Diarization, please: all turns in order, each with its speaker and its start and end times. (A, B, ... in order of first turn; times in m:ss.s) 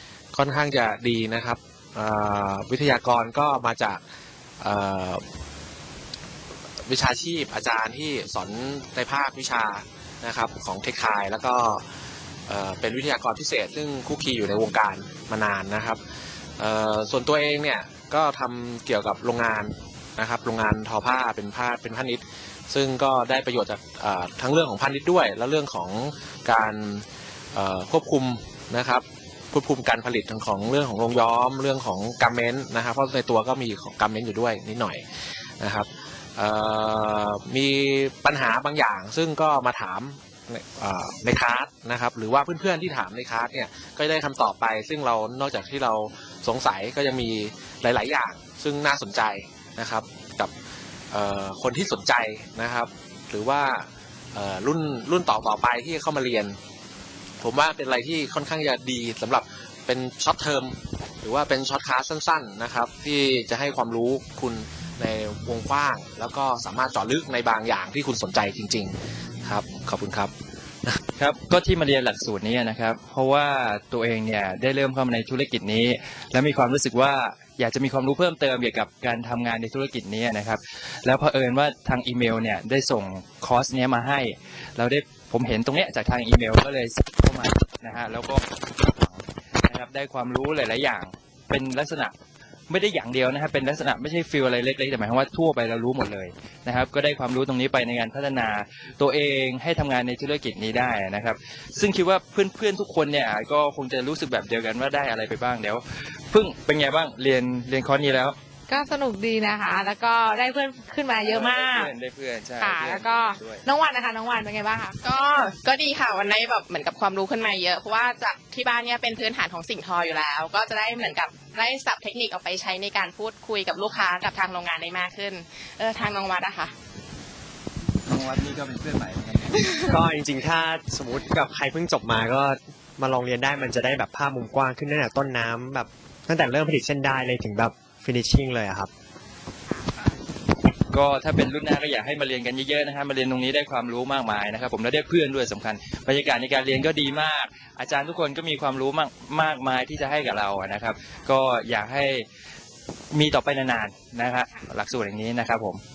0:00.3-0:04.0 A
0:04.6-0:05.2 A
0:06.8-0:11.8 A
0:12.5-0:16.0 A
0:16.6-0:35.0 A
0:35.6-0:50.5 A
0:51.1-0:56.6 A
0:57.4-1:10.3 A
1:11.2-1:32.1 B
1:32.7-1:48.4 B
1:48.7-1:51.9 C
1:51.2-1:53.6 B
1:52.6-1:55.0 C
1:55.0-2:06.7 D
2:08.0-2:09.9 B
2:09.8-2:18.9 E
2:20.9-2:32.2 B
2:33.1-2:35.8 B